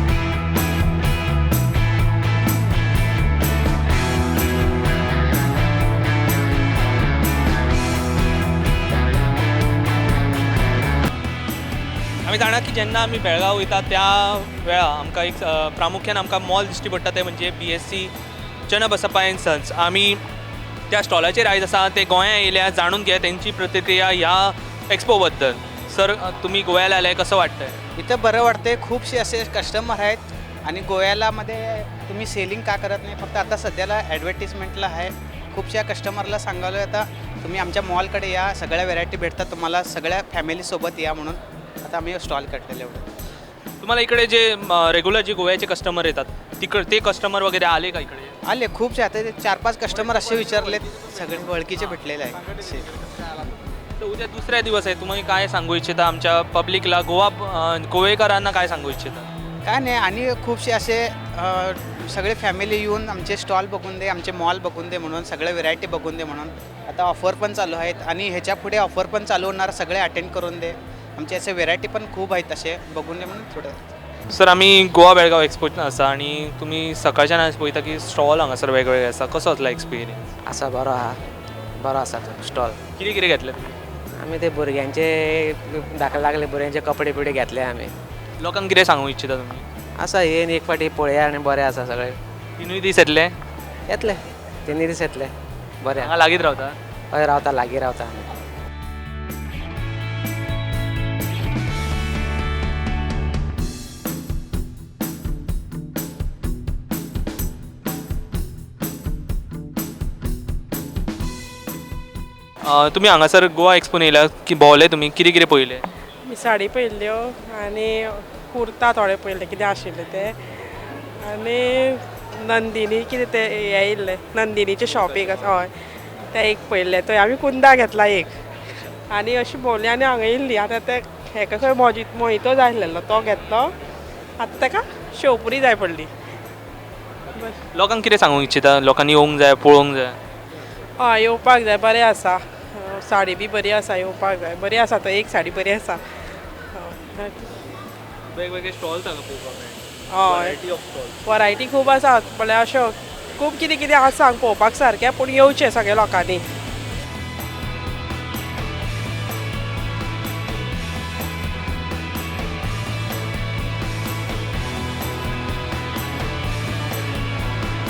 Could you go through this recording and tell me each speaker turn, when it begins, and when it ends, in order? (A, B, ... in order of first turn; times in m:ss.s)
0:12.2-0:18.1 A
0:18.7-0:20.2 A
0:20.9-0:27.8 A
0:28.0-0:43.1 B
0:43.8-0:48.3 A
0:48.5-0:52.8 B
0:54.0-0:59.3 A
0:59.6-1:13.9 B
1:14.3-1:20.3 A
1:20.4-1:21.2 C
1:21.8-1:22.8 C
1:23.0-1:23.8 A
1:24.2-1:28.0 C
1:28.4-1:29.7 A
1:30.0-1:32.2 C
1:32.6-1:33.3 A
1:33.9-1:36.2 C
1:36.0-1:36.8 A
1:37.1-1:38.3 C
1:52.6-1:55.8 A
1:56.3-2:00.4 D
2:01.2-2:05.7 D
2:06.3-2:08.3 D
2:09.1-2:13.7 D
2:14.4-2:16.1 D
2:17.7-2:20.2 A
2:21.0-2:26.0 D
2:26.8-2:27.3 D
2:28.3-2:31.2 A
2:30.1-2:30.5 D
2:31.3-2:36.4 D